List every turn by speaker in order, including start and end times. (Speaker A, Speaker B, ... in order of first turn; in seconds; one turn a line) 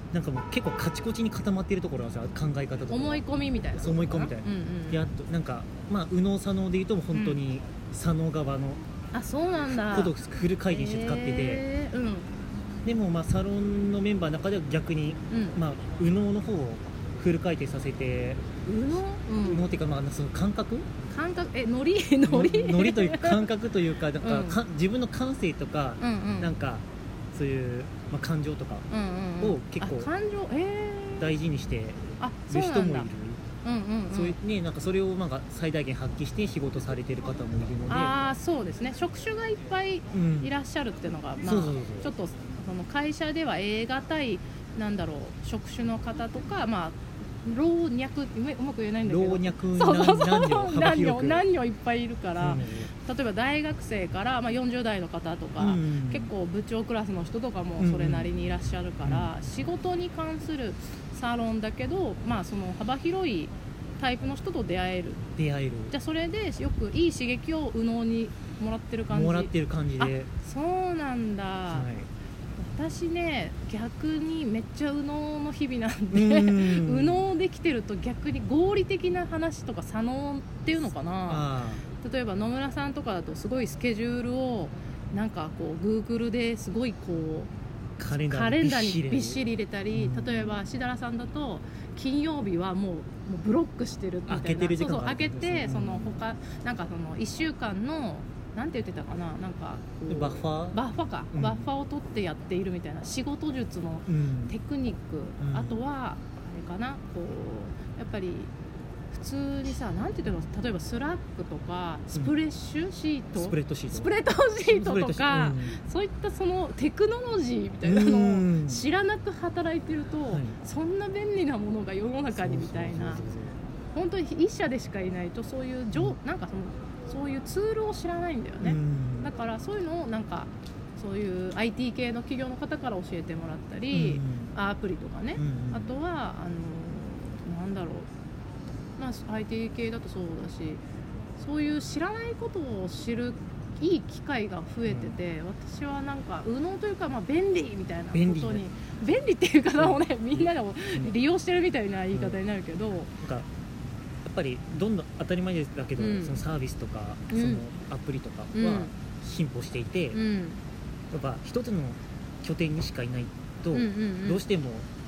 Speaker A: 0.1-3.2
Speaker B: 2.9-5.0
Speaker A: 3.8-8.8
Speaker B: 7.1-7.4
Speaker B: 9.1-10.1
Speaker A: 9.7-11.7
Speaker B: 10.7-12.4
Speaker A: 12.8-18.4
Speaker B: 15.3-15.6
Speaker B: 18.6-19.7
Speaker A: 19.4-20.9
Speaker B: 21.1-23.4
Speaker A: 22.2-28.9
Speaker B: 24.2-24.6
Speaker B: 26.0-26.5
Speaker B: 28.9-31.3
Speaker A: 29.4-30.1
Speaker A: 31.2-33.4
Speaker B: 32.2-33.1
Speaker B: 33.6-34.4
Speaker A: 34.1-38.1
Speaker B: 37.9-65.2
Speaker A: 40.1-40.5
Speaker A: 41.4-42.1
Speaker A: 49.0-51.5
Speaker A: 52.4-52.9
Speaker A: 55.6-56.3
Speaker A: 57.8-58.3
Speaker A: 59.0-59.3
Speaker A: 65.3-65.9
Speaker B: 65.9-71.9
Speaker A: 69.1-70.3
Speaker A: 71.7-72.1
Speaker B: 72.6-87.5
Speaker A: 76.1-77.3
Speaker A: 81.3-81.8
Speaker A: 88.0-89.4
Speaker B: 88.3-108.5
Speaker A: 89.9-90.5
Speaker A: 94.3-96.2
Speaker A: 100.1-101.7
Speaker A: 104.1-104.5
Speaker A: 105.4-105.8
Speaker B: 109.1-123.2
Speaker A: 113.3-114.1
Speaker A: 114.7-115.8
Speaker A: 117.8-118.8
Speaker A: 120.3-120.5
Speaker A: 122.3-123.6
Speaker B: 123.9-138.1
Speaker A: 128.6-129.3
Speaker A: 133.9-134.5
Speaker A: 135.3-135.9
Speaker B: 139.0-140.8
Speaker B: 141.4-153.1
Speaker A: 144.8-145.2
Speaker A: 148.1-148.7
Speaker A: 149.8-151.1
Speaker A: 152.1-152.4
Speaker A: 153.2-153.5
Speaker A: 154.2-160.2
Speaker B: 156.0-156.4
Speaker B: 157.3-157.6
Speaker B: 158.5-158.9
Speaker B: 160.1-160.6
Speaker A: 161.1-164.9
Speaker B: 163.7-164.4